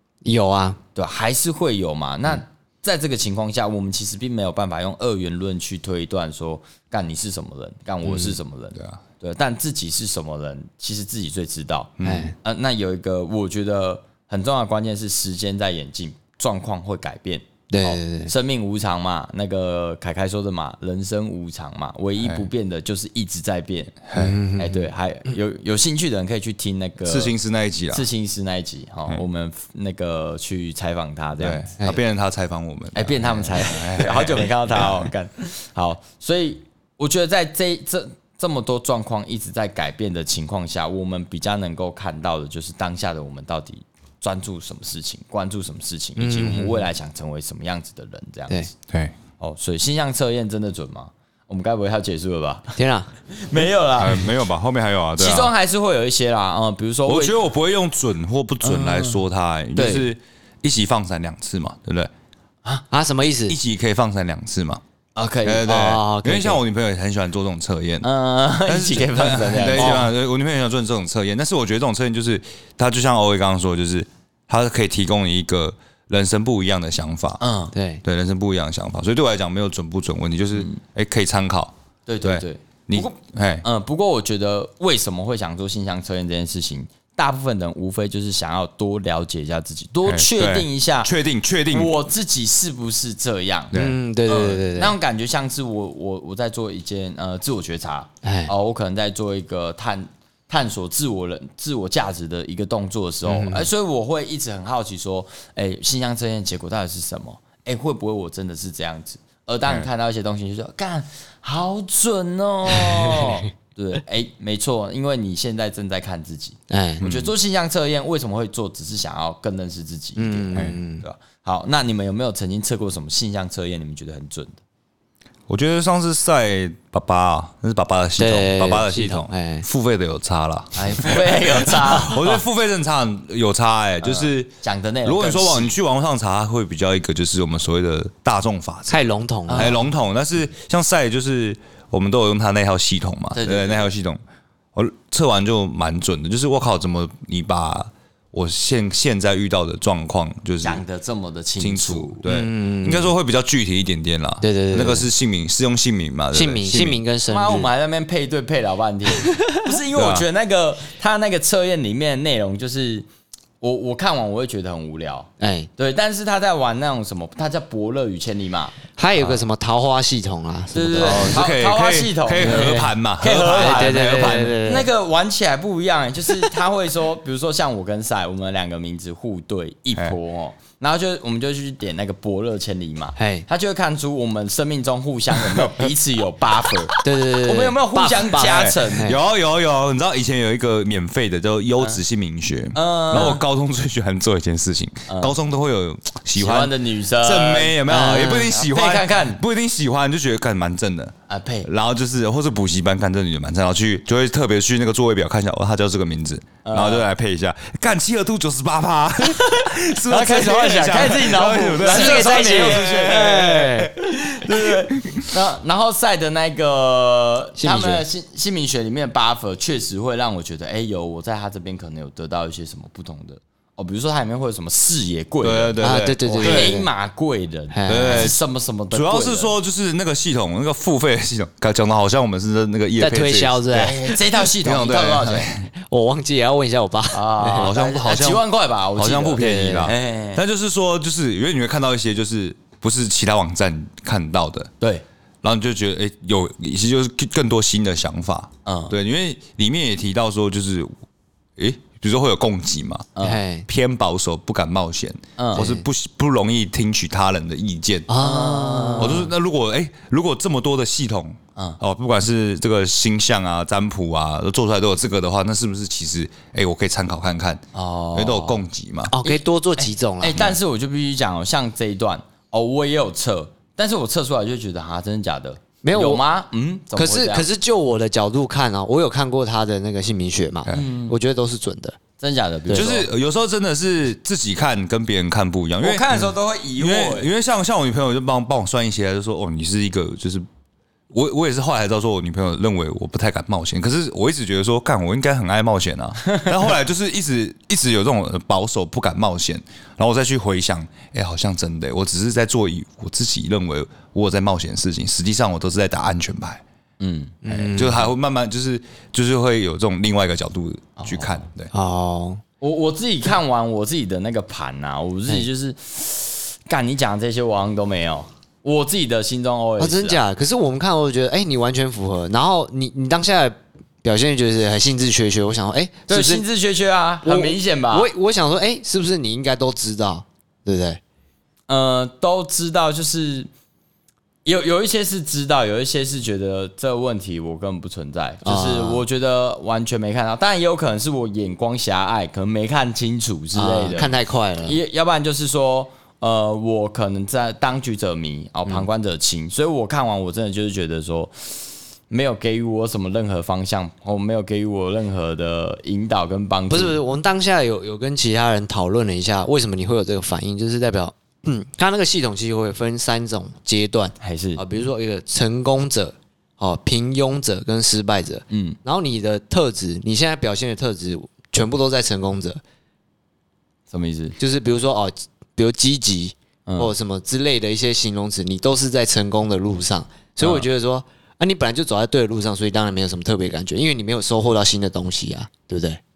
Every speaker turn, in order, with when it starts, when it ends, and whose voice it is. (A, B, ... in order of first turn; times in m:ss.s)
0:00.2-0:00.8 A
0:01.0-0:24.0 B
0:08.1-0:08.4 A
0:08.8-0:09.0 C
0:12.0-0:12.3 C
0:12.0-0:12.4 A
0:17.7-0:18.3 A
0:22.2-0:22.5 C
0:24.1-0:24.4 C
0:24.2-0:24.9 A
0:24.6-0:27.4 B
0:27.0-0:28.0 C
0:27.9-0:31.9 B
0:31.4-0:35.0 C
0:33.0-0:48.7 B
0:46.2-0:46.9 A
0:48.9-0:49.1 C
0:49.4-0:52.8 B
0:52.8-0:53.1 A
0:53.3-0:54.3 B
0:54.0-0:55.5 C
0:55.2-0:57.4 B
0:57.1-1:02.1 C
0:58.6-0:59.2 B
0:59.8-1:00.1 B
1:02.9-1:03.6 A
1:03.5-1:04.8 C
1:05.2-1:05.7 B
1:05.4-1:08.1 C
1:05.6-1:06.6 A
1:08.0-1:10.1 B
1:08.7-1:17.4 C
1:09.8-1:10.1 A
1:17.4-1:17.8 B
1:17.7-1:18.0 A
1:18.0-1:23.6 C
1:22.1-1:31.1 B
1:30.1-1:32.0 C
1:31.7-2:04.6 B
1:33.7-1:34.0 C
1:33.7-1:35.0 A
1:38.2-1:38.5 A
1:43.2-1:43.7 A
1:56.7-1:57.0 A
1:57.0-1:57.3 C
2:00.2-2:01.0 A
2:05.5-2:14.5 C
2:08.2-2:09.7 A
2:10.8-2:12.4 B
2:14.0-2:15.8 B
2:15.0-2:24.2 C
2:18.9-2:19.8 A
2:19.5-2:19.8 B
2:23.4-2:23.9 B
2:24.8-2:30.8 C
2:30.6-2:32.2 B
2:31.6-2:37.0 C
2:32.2-2:33.2 A
2:34.4-2:35.1 A
2:36.3-2:37.7 A
2:37.3-2:43.1 B
2:39.2-2:39.5 A
2:39.9-2:40.3 C
2:43.6-2:49.4 B
2:45.4-2:45.7 A
2:49.0-2:51.4 A
2:50.7-3:09.2 B
2:51.0-2:54.7 C
2:52.4-2:52.9 A
2:53.5-2:54.9 A
3:03.2-3:03.4 A
3:07.0-3:09.2 A
3:08.4-3:21.1 C
3:12.7-3:13.4 B
3:15.1-3:15.4 B
3:16.4-3:19.4 B
3:17.9-3:18.5 A
3:21.3-3:21.7 B
3:21.6-3:35.3 C
3:26.6-3:27.1 B
3:30.0-3:45.7 B
3:31.8-3:33.9 A
3:37.6-3:38.1 A
3:45.4-3:46.8 C
3:45.8-3:46.9 A
3:46.3-3:49.6 B
3:47.7-3:48.4 A
3:47.9-3:48.4 C
3:48.9-3:53.6 C
3:53.0-3:54.1 A
3:53.7-3:55.5 B
3:54.4-3:55.7 C
3:55.8-3:57.7 A
3:57.1-4:00.4 B
3:57.6-3:58.4 C
3:59.0-4:04.7 C
4:05.4-4:10.9 C
4:08.6-4:09.0 B
4:11.6-4:13.1 C
4:13.2-4:13.4 B
4:13.2-4:13.7 A
4:13.7-4:18.1 C
4:15.4-4:15.7 B
4:15.6-4:15.8 A
4:18.1-4:19.3 A
4:18.2-4:19.3 B
4:19.0-4:27.6 C
4:27.7-4:28.6 B
4:28.2-4:29.1 C
4:29.1-4:30.4 A
4:29.2-4:37.5 B
4:35.8-4:36.2 A
4:37.0-4:42.0 A
4:40.7-4:41.2 B
4:42.2-4:43.1 B
4:42.7-4:43.0 A
4:42.7-4:50.4 C
4:45.8-4:47.3 B
4:51.1-5:06.6 C
5:07.0-5:07.4 B
5:07.4-5:08.1 A
5:07.4-5:11.7 C
5:11.0-5:11.4 B
5:11.7-5:12.4 A
5:12.6-5:20.2 B
5:19.8-5:26.4 A
5:26.1-5:28.1 B
5:27.2-5:31.0 A
5:31.7-5:33.5 B
5:34.4-5:57.0 B
5:38.4-5:39.0 A
5:43.5-5:44.8 A
5:56.7-6:12.6 A
6:04.2-6:04.6 B
6:08.5-6:08.8 B
6:13.9-6:14.4 B
6:14.4-6:26.0 A
6:16.7-6:16.9 B
6:20.4-6:20.6 B